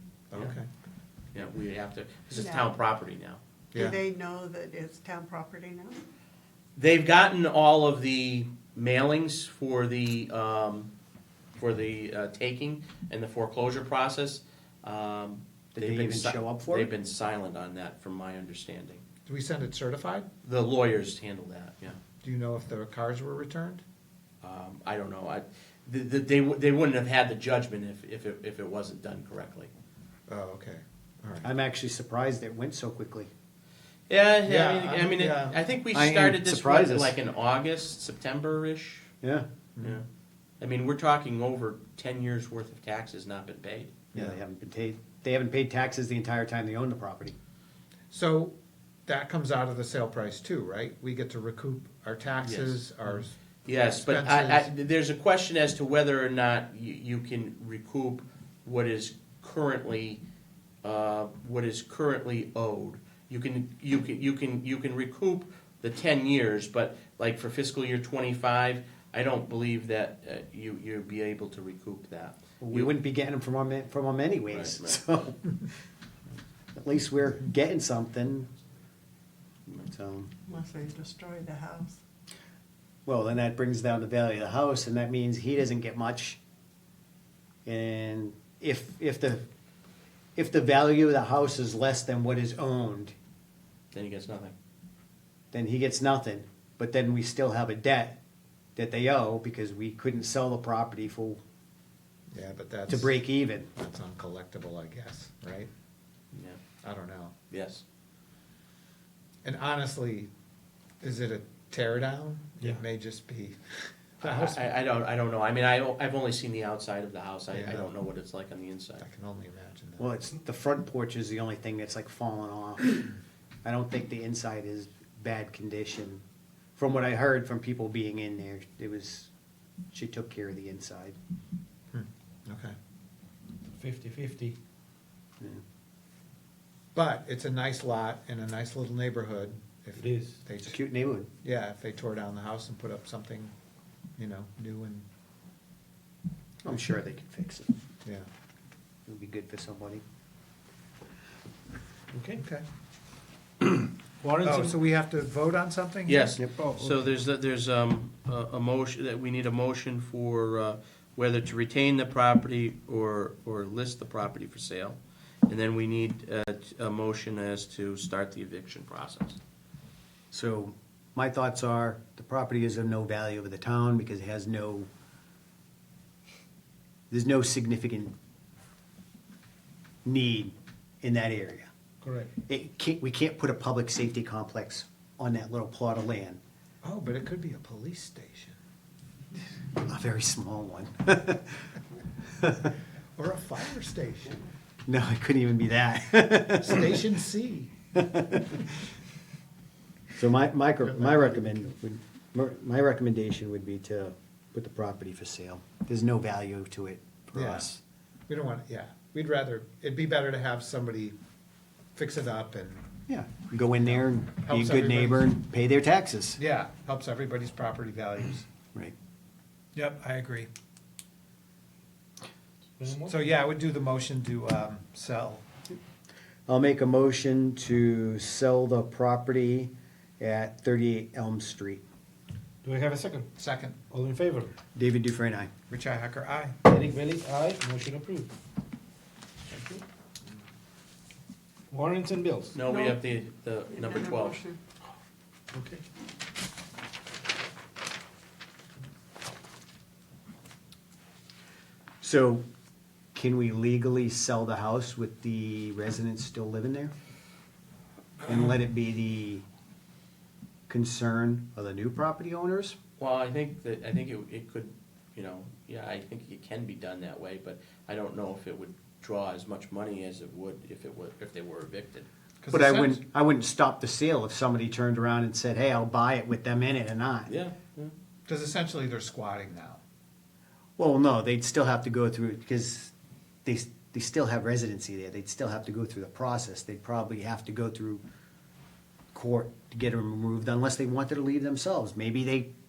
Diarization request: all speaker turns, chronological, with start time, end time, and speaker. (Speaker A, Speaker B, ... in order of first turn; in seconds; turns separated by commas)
Speaker A: 0.3-0.7, Speaker B: 1.3-3.4, Speaker C: 2.4-2.7, Speaker C: 3.7-6.0, Speaker B: 6.8-10.9, Speaker B: 11.6-19.0, Speaker D: 15.7-16.9, Speaker A: 19.3-20.3, Speaker B: 20.4-22.0, Speaker A: 22.2-23.8, Speaker B: 24.4-29.7, Speaker A: 30.3-31.5, Speaker D: 31.4-33.3, Speaker B: 34.1-39.1, Speaker A: 34.5-35.6, Speaker D: 35.9-37.1, Speaker B: 39.8-40.0, Speaker B: 40.6-44.0, Speaker D: 44.1-47.3, Speaker A: 48.1-48.5, Speaker A: 49.1-53.3, Speaker B: 52.4-60.2, Speaker A: 53.8-54.7, Speaker B: 60.8-72.9, Speaker D: 72.6-75.4, Speaker B: 74.5-75.0, Speaker D: 76.7-78.5, Speaker D: 79.8-80.3, Speaker C: 80.5-82.0, Speaker D: 83.0-86.4, Speaker D: 87.7-89.4, Speaker D: 90.3-93.1, Speaker B: 93.9-94.5, Speaker D: 95.5-98.2, Speaker D: 98.8-101.4, Speaker A: 102.3-103.2, Speaker D: 102.9-103.7, Speaker A: 103.7-105.7, Speaker B: 106.3-106.6, Speaker A: 106.8-107.3, Speaker B: 107.5-107.8, Speaker A: 109.4-110.3, Speaker A: 111.0-114.7, Speaker B: 114.2-119.0, Speaker A: 117.5-117.9, Speaker A: 119.0-120.1, Speaker D: 120.0-123.0, Speaker D: 123.6-126.2, Speaker D: 126.8-129.3, Speaker D: 129.9-131.2, Speaker A: 131.9-132.7, Speaker E: 133.7-134.6, Speaker A: 136.9-140.8, Speaker E: 140.0-140.4, Speaker D: 140.6-141.3, Speaker A: 141.4-143.5, Speaker A: 144.2-145.1, Speaker D: 146.6-147.7, Speaker D: 149.1-150.0, Speaker E: 152.1-152.4, Speaker A: 152.4-152.6, Speaker E: 153.8-154.8, Speaker A: 154.4-156.4, Speaker B: 156.1-169.4, Speaker E: 156.6-157.0, Speaker D: 170.3-174.9, Speaker D: 177.1-178.1, Speaker D: 180.0-181.7, Speaker E: 182.0-182.3, Speaker D: 182.5-186.4, Speaker A: 186.8-188.6, Speaker D: 189.8-191.6, Speaker D: 192.4-192.7, Speaker A: 193.2-194.4, Speaker D: 194.9-196.9, Speaker A: 196.6-197.7, Speaker D: 197.9-198.7, Speaker D: 200.1-207.8, Speaker A: 200.8-201.4, Speaker A: 207.3-207.7, Speaker A: 208.3-211.2, Speaker A: 211.9-212.9, Speaker D: 213.1-216.4, Speaker A: 213.8-215.3, Speaker A: 216.4-218.5, Speaker A: 219.7-220.5, Speaker E: 222.8-223.2, Speaker A: 223.1-225.5, Speaker D: 226.5-231.8, Speaker E: 232.6-233.3, Speaker A: 233.4-233.8, Speaker E: 233.8-234.5, Speaker D: 234.8-235.5, Speaker A: 235.7-236.6, Speaker E: 236.6-238.3, Speaker E: 241.7-242.5, Speaker B: 242.5-244.4, Speaker C: 242.6-242.9, Speaker C: 243.8-244.6, Speaker E: 245.5-245.8, Speaker D: 252.0-252.4, Speaker D: 253.1-256.9, Speaker D: 258.2-259.4, Speaker D: 260.7-262.8, Speaker B: 263.0-272.1, Speaker A: 272.4-273.0, Speaker D: 272.5-277.3, Speaker B: 277.3-277.9, Speaker A: 278.3-279.8, Speaker D: 280.8-282.9, Speaker D: 283.4-288.0, Speaker D: 289.1-292.5